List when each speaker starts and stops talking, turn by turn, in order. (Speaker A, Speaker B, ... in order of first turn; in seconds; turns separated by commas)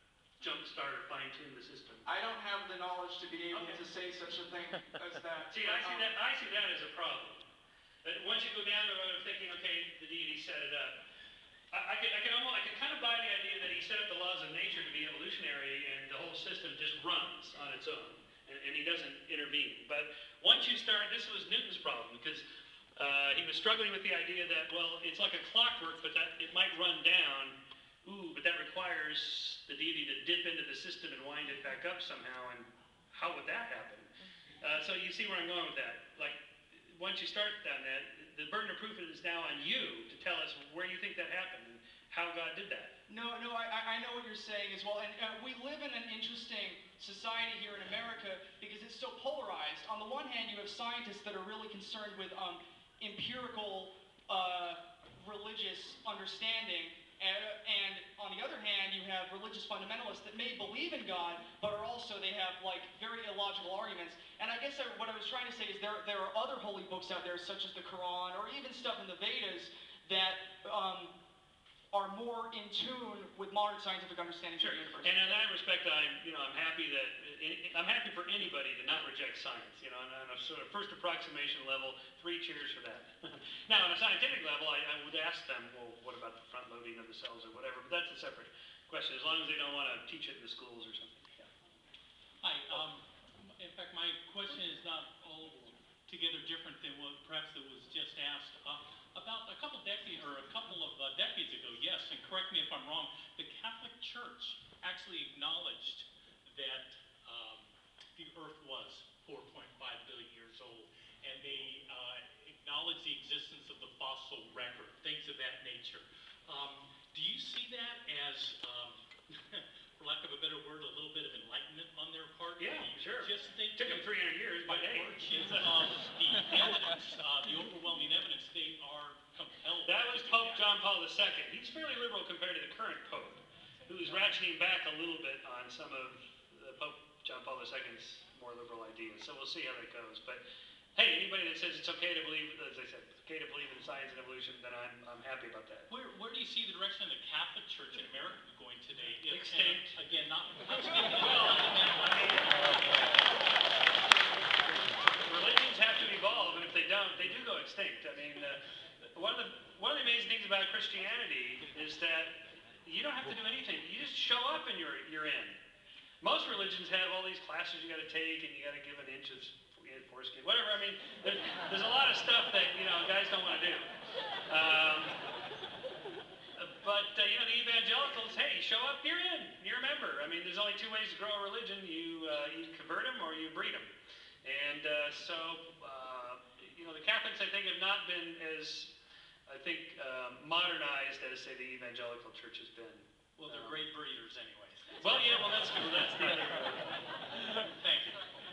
Speaker A: 0.4-2.0, Speaker B: 2.0-6.1, Speaker A: 3.5-3.8, Speaker A: 5.5-7.4, Speaker A: 8.0-11.0, Speaker A: 11.7-22.4, Speaker A: 23.0-34.1, Speaker A: 34.6-42.9, Speaker B: 43.1-71.1, Speaker B: 71.9-75.3, Speaker A: 74.6-91.5, Speaker C: 92.4-124.1, Speaker A: 122.6-125.8, Speaker C: 124.6-130.7, Speaker A: 129.8-140.4, Speaker A: 140.9-145.9, Speaker C: 145.9-153.4, Speaker A: 149.3-150.0, Speaker A: 151.1-152.8, Speaker A: 155.2-158.6, Speaker A: 159.1-165.6, Speaker A: 166.2-173.9, Speaker A: 174.5-175.2, Speaker A: 176.6-183.9, Speaker A: 184.4-188.9, Speaker A: 189.5-193.8, Speaker C: 193.4-196.4, Speaker A: 195.0-197.0, Speaker C: 197.6-198.3